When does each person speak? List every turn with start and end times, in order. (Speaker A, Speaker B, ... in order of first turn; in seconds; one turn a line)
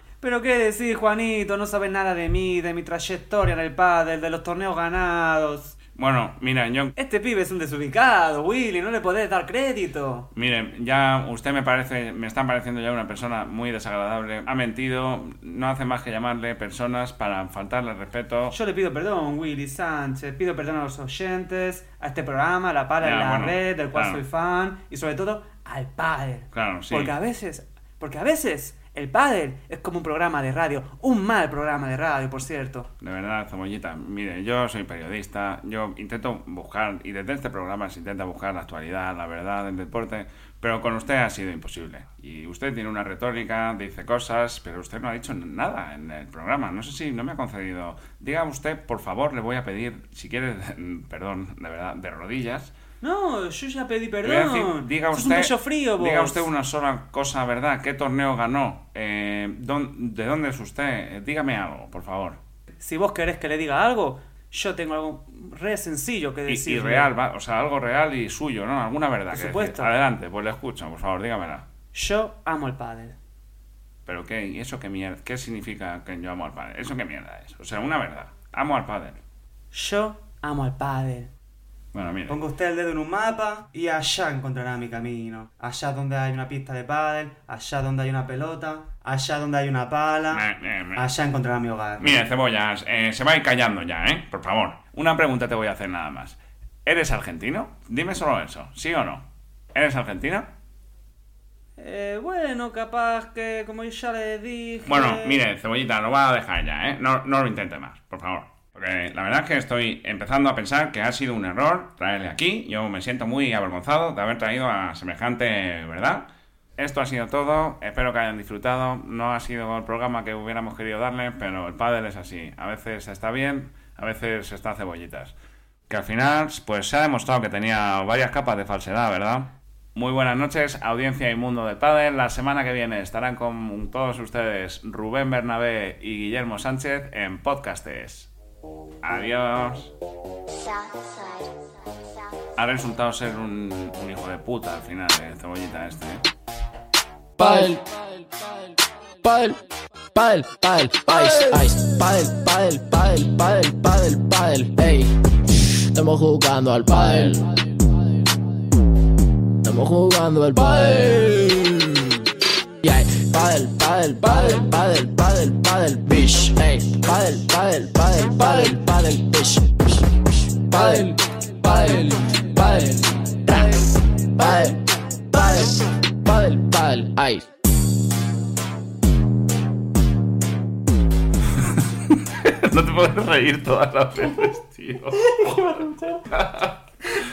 Speaker A: 0.2-5.8
Speaker B: 6.0-7.0
Speaker A: 7.0-10.3
Speaker B: 10.3-18.6
Speaker A: 18.5-32.9
Speaker B: 23.0-24.2
Speaker B: 26.5-27.1
Speaker B: 33.0-52.7
Speaker A: 53.0-56.5
Speaker B: 54.2-62.4
Speaker A: 62.7-67.1
Speaker B: 66.5-71.6
Speaker A: 69.3-69.9
Speaker A: 71.9-73.2
Speaker B: 74.1-79.2
Speaker A: 79.7-81.3
Speaker B: 81.9-82.4
Speaker A: 82.3-90.4
Speaker B: 90.3-91.1
Speaker A: 91.0-92.2
Speaker B: 92.0-100.5
Speaker A: 101.8-105.4
Speaker B: 104.8-125.3
Speaker B: 125.9-138.3
Speaker B: 139.0-139.9
Speaker B: 142.6-146.2
Speaker C: 147.4-147.9
Speaker C: 149.2-149.6
Speaker C: 150.1-155.2
Speaker C: 155.9-157.5
Speaker C: 159.6-161.9
Speaker C: 162.8-169.9
Speaker C: 170.6-177.4
Speaker B: 182.1-186.8
Speaker A: 185.2-186.3